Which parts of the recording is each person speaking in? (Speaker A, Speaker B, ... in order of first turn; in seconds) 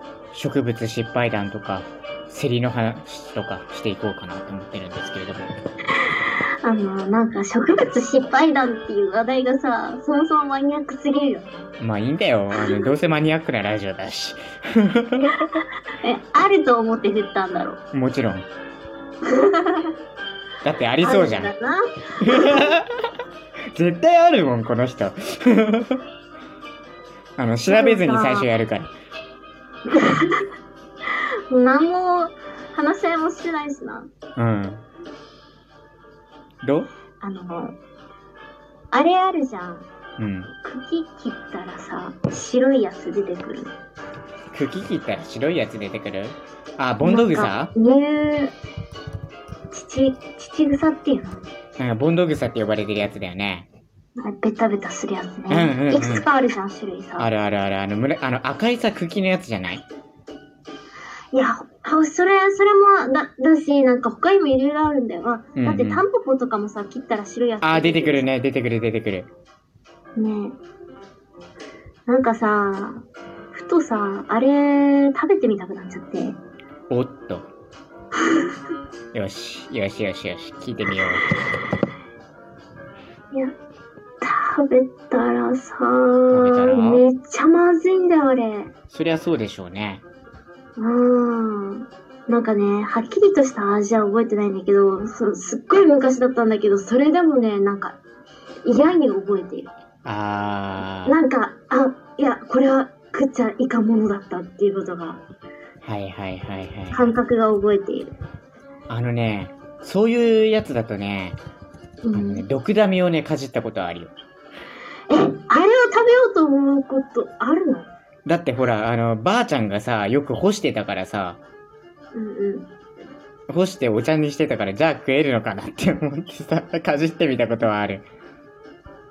Speaker A: 0.3-5.5, 11.8-15.5, 17.9-18.5, 20.6-21.5, 22.2-22.9, 23.7-26.0, 27.4-28.9, 34.4-34.8, 36.6-36.9, 40.2-40.5, 44.5-47.7, 51.8-53.7, 55.5-56.3, 57.2-59.8, 65.6-66.0, 67.6-69.3, 76.9-77.5, 79.1-81.3, 86.3-87.0, 88.9-90.0, 100.0-101.2, 105.8-107.2, 108.9-111.4, 112.1-114.1, 118.2-121.4, 123.5-128.1
Speaker B: 6.6-11.7, 12.6-12.9, 16.0-17.8, 19.3-19.9, 21.0-22.8, 27.7-28.5, 29.9-30.4, 31.5-34.1, 37.2-37.8, 38.9-39.9, 40.6-43.7, 47.0-48.5, 49.7-51.5, 54.2-57.3, 61.3-68.3, 70.2-70.6, 72.1-76.4, 84.2-88.7, 90.8-98.0, 98.7-99.7, 101.1-105.2, 106.9-108.1, 112.0-112.5, 115.1-117.9, 122.1-122.7